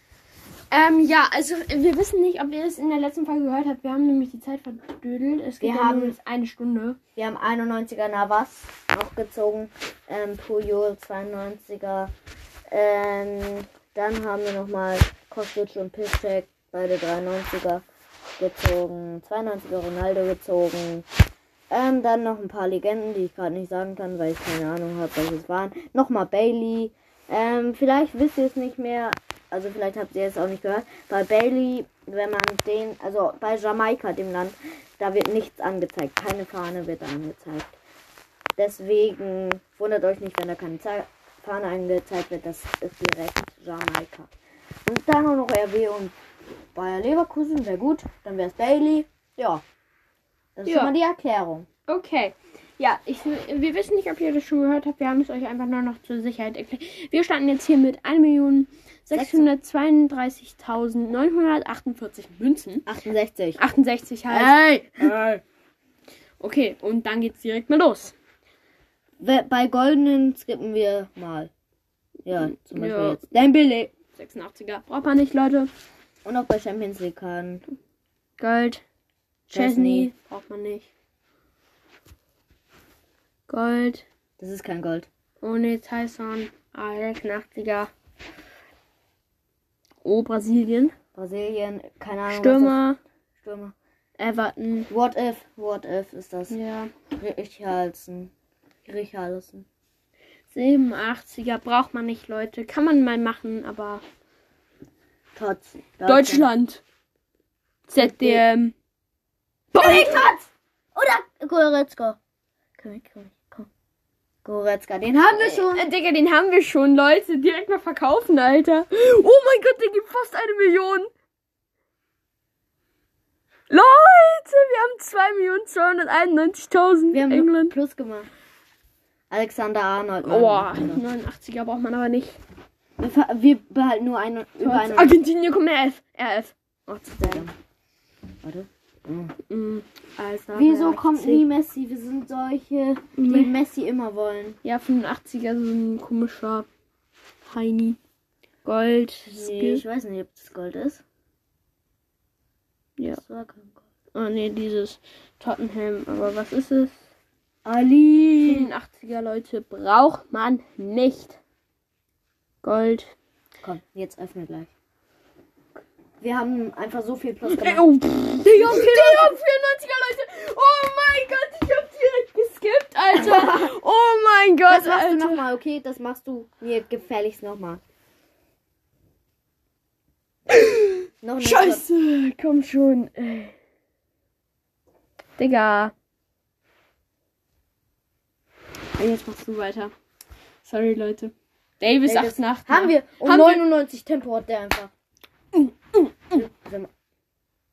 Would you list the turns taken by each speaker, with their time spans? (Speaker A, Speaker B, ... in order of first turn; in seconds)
Speaker A: 0.7-7.0, 50.6-50.9, 51.9-62.9, 63.6-65.4, 66.4-68.1, 72.4-75.7, 78.4-78.8, 79.5-80.9, 83.5-84.0, 85.4-87.9, 90.0-90.9, 92.3-93.0, 94.2-94.9, 96.5-96.9, 100.5-104.0, 106.0-106.8, 107.9-108.7, 109.7-110.2, 115.4-121.1, 123.7-127.7, 130.2-132.4, 134.6-137.4, 139.5-141.4, 143.2-143.5, 144.6-146.7, 147.5-148.0, 148.6-149.8, 154.1-156.9, 158.4-161.4, 162.6-163.1, 167.4-175.4, 180.5-183.5, 185.4-185.9, 189.0-189.9, 190.6-193.7, 195.6-196.4
Speaker B: 5.6-6.2, 7.2-12.1, 12.7-17.8, 18.4-21.1, 21.7-37.7, 38.6-44.3, 44.9-46.1, 46.7-49.6, 50.5-51.7, 59.1-59.5, 62.9-63.6, 64.3-65.2, 69.2-71.5, 72.3-73.3, 76.2-77.7, 79.5-80.1, 84.4-85.1, 91.1-92.8, 93.4-93.7, 94.9-96.5, 97.2-98.3, 98.8-99.7, 105.3-106.5, 108.0-108.4, 109.7-112.2, 112.8-113.7, 114.4-115.9, 127.1-128.3, 129.3-131.0, 133.0-135.2, 137.1-137.5, 138.4-139.3, 140.5-144.6, 149.2-151.0, 153.1-153.8, 157.6-158.7, 163.6-164.7, 166.2-167.8, 168.4-169.3, 173.1-173.7, 174.7-177.8, 181.2-181.8, 192.0-194.9, 196.3-196.9